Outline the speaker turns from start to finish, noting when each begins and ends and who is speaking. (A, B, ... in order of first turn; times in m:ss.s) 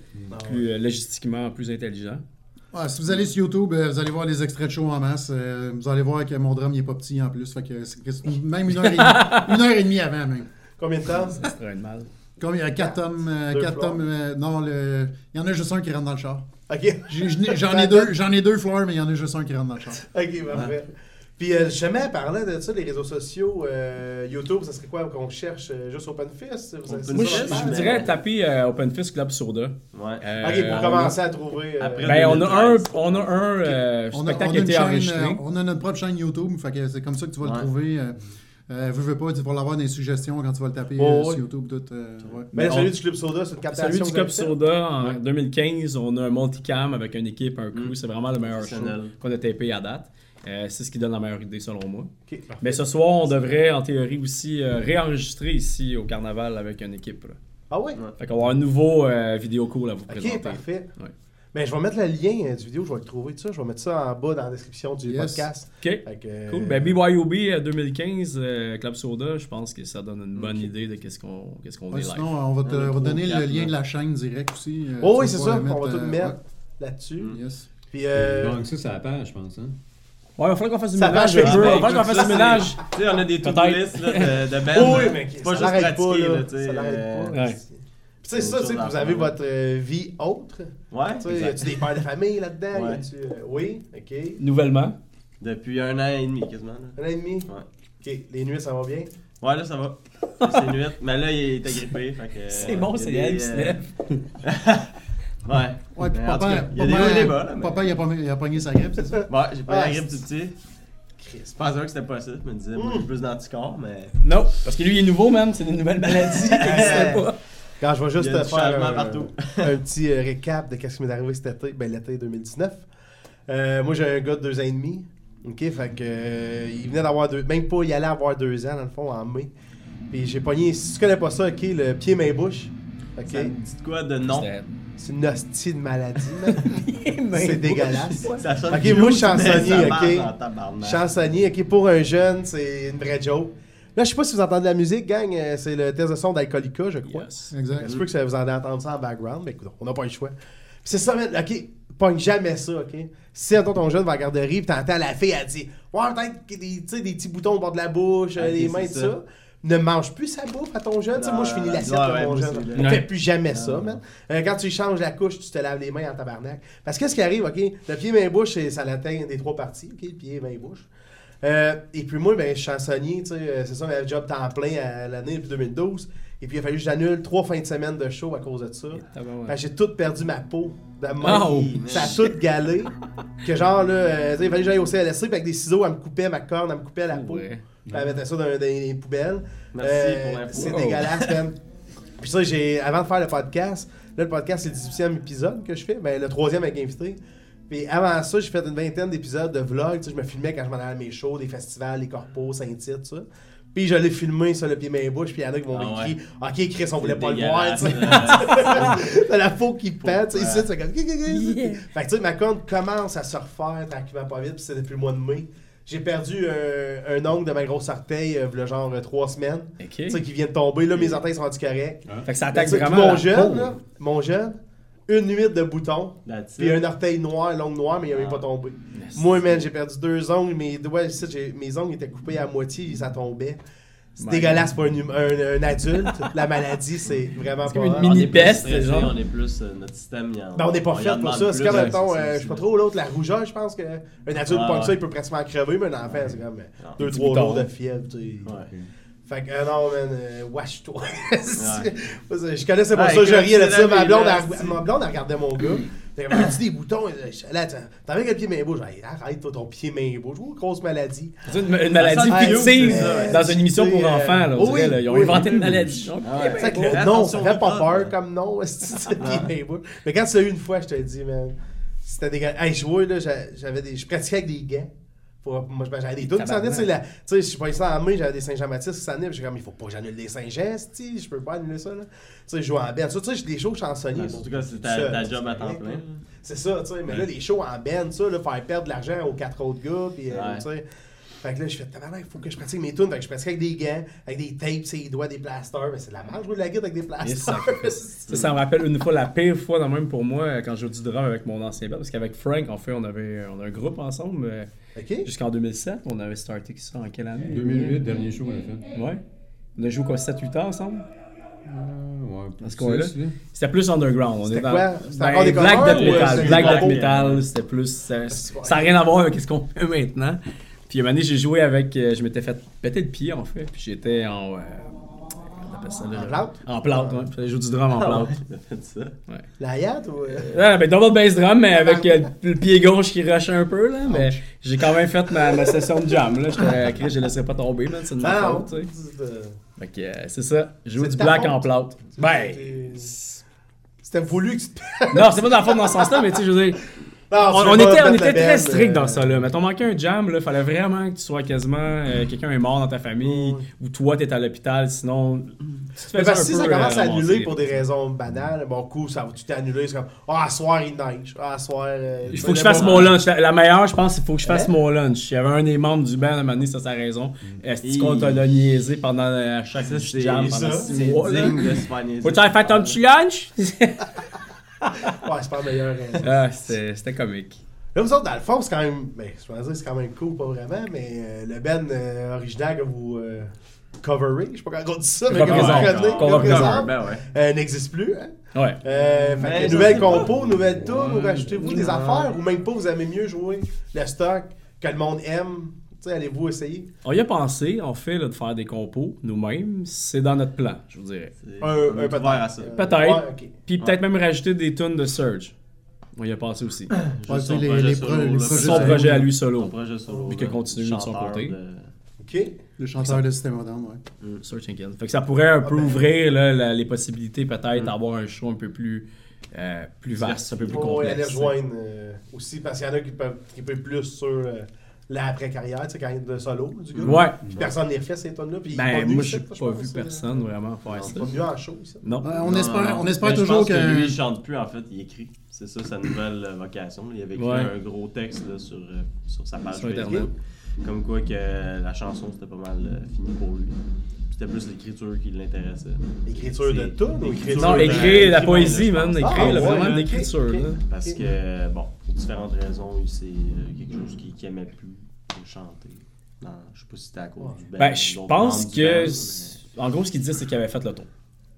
0:00.3-0:00.7 A
0:00.4-0:02.2 B
0:02.7-0:10.5 C
0:08.8-0:09.6 B
0:10.8-0:11.4 A
0:11.3-0:12.1 B
0:12.4-0:16.5 C
0:13.5-0:14.0 A
0:16.7-0:18.1 A
0:17.1-0:20.0 C
0:20.0-0:28.1 A
0:26.9-0:28.1 D
0:27.1-0:31.2 B
0:29.9-0:30.2 D
0:30.4-0:32.5 A
0:31.8-0:33.3 D
0:32.0-0:35.4 B
0:34.1-0:42.5 C
0:41.0-0:41.4 A
0:42.5-0:42.9 B
0:42.5-0:45.1 A
0:43.7-0:52.1 B
0:47.7-0:49.1 D
0:52.3-0:53.5 A
0:52.6-0:57.4 B
0:57.7-0:58.0 A
0:58.2-1:01.1 B
1:00.1-1:00.9 A
1:01.5-1:06.9 A
1:05.0-1:05.5 C
1:05.8-1:12.3 B
1:11.9-1:16.4 C
1:12.6-1:13.7 D
1:15.0-1:17.4 A
1:17.2-1:17.7 C
1:17.9-1:18.6 A
1:18.1-1:19.7 E
1:20.4-1:25.1 B
1:20.9-1:22.8 A
1:21.3-1:27.4 D
1:24.7-1:34.4 A
1:27.3-1:27.6 B
1:28.3-1:29.3 D
1:30.9-1:31.9 D
1:32.7-1:33.0 D
1:34.4-1:35.0 B
1:35.4-1:37.6 D
1:37.0-1:37.5 A
1:38.0-1:39.1 A
1:39.4-1:43.8 D
1:40.4-1:40.7 B
1:42.5-1:44.2 B
1:44.4-1:44.9 D
1:45.4-1:47.8 D
1:45.9-1:49.2 C
1:49.1-1:50.1 A
1:49.3-1:50.6 D
1:51.2-1:51.6 A
1:51.6-1:54.1 D
1:52.7-1:53.1 A
1:54.2-1:57.4 B
1:56.1-1:57.2 D
1:56.6-1:57.3 A
1:57.8-2:02.9 A
1:58.2-1:59.7 D
2:03.5-2:09.5 A
2:10.1-2:13.5 A
2:13.3-2:14.5 D
2:14.2-2:14.7 B
2:15.0-2:50.9 A
2:16.5-2:19.8 B
2:18.2-2:21.0 D
2:27.1-2:27.5 B
2:27.5-2:27.9 C
2:38.4-2:39.1 D
2:41.1-2:44.0 D
2:42.7-2:43.0 B
2:51.4-3:11.6 A
2:58.9-2:59.6 B
3:01.2-3:02.2 D
3:01.2-3:02.4 B
3:07.1-3:07.6 B
3:09.7-3:11.0 D
3:10.5-3:11.3 B
3:12.2-3:53.6 A
3:25.7-3:26.1 D
3:27.0-3:29.1 D
3:27.9-3:28.4 B
3:30.0-3:30.7 D
3:31.3-3:31.8 B
3:39.8-3:40.2 B
3:40.9-3:41.2 D
3:42.2-3:43.7 B
3:46.2-3:46.8 D
3:48.1-3:48.5 D
3:48.9-3:49.3 B
3:54.2-3:54.6 B
3:54.2-3:58.5 A
3:57.6-3:59.2 B
3:58.0-4:02.6 D
4:00.5-4:08.5 A
4:01.6-4:01.9 B
4:04.5-4:05.0 D
4:07.0-4:07.7 B
4:09.3-4:21.4 A
4:11.6-4:11.9 D
4:12.9-4:14.8 D
4:21.4-4:27.1 B
4:21.9-4:23.5 D
4:22.3-4:25.8 A
4:25.4-4:25.9 E
4:26.2-4:28.1 D
4:26.5-4:34.9 A
4:29.2-4:29.5 D
4:35.4-4:50.8 A
4:36.3-4:36.9 B
4:44.2-4:46.2 D
4:50.3-4:50.6 D
4:51.4-4:58.3 A
4:57.2-5:04.7 B
5:04.9-5:05.3 A
5:05.2-5:08.0 B
5:07.4-5:08.8 E
5:08.9-5:09.2 B
5:09.8-5:11.0 B
5:11.6-5:13.4 E
5:12.6-5:25.0 B
5:14.4-5:17.1 A
5:15.6-5:17.4 D
5:18.3-5:18.9 A
5:25.6-5:28.4 B
5:26.1-5:27.2 A
5:27.9-5:29.1 D
5:29.6-5:30.6 A
5:30.4-5:38.9 B
5:31.7-5:32.2 A
5:34.1-5:34.4 A
5:35.3-5:35.9 A
5:38.2-5:39.6 A
5:39.8-5:43.4 B
5:41.0-5:43.1 A
5:44.0-5:46.4 A
5:45.1-5:57.8 B
5:47.3-5:49.5 A
5:53.2-5:53.6 A
5:56.0-6:03.2 A
6:02.3-6:14.1 B
6:02.4-6:03.1 D
6:04.4-6:04.7 A
6:07.8-6:08.4 D
6:09.8-6:13.0 D
6:10.3-6:11.5 A
6:14.8-6:15.1 B
6:15.0-6:16.4 A
6:16.2-6:17.6 B
6:17.9-6:36.9 A
6:25.3-6:26.9 B
6:25.3-6:27.2 D
6:28.5-6:28.8 B
6:29.4-6:30.6 D
6:29.5-6:30.3 B
6:30.8-6:32.3 B
6:37.0-6:41.3 B
6:41.4-6:42.8 D
6:41.6-6:43.5 A
6:42.8-6:45.5 B
6:46.2-6:46.9 B
6:46.9-6:51.9 D
6:47.3-6:49.3 C
6:48.5-6:51.5 B
6:52.2-6:52.6 A
6:52.8-6:54.0 C
6:54.4-7:01.5 B
6:55.6-6:56.0 A
7:00.2-7:01.0 D
7:00.7-7:10.5 A
7:06.9-7:07.7 D
7:07.0-7:07.4 B
7:08.7-7:11.3 B
7:10.9-7:11.4 D
7:11.0-7:12.0 A
7:12.0-7:12.3 B
7:12.2-7:14.2 C
7:12.3-7:30.0 D
7:17.3-7:17.7 B
7:19.7-7:20.3 B
7:20.0-7:20.3 A
7:26.2-7:28.7 A
7:27.6-7:30.8 B
7:29.2-7:31.2 A
7:30.9-7:39.6 D
7:37.8-7:41.1 B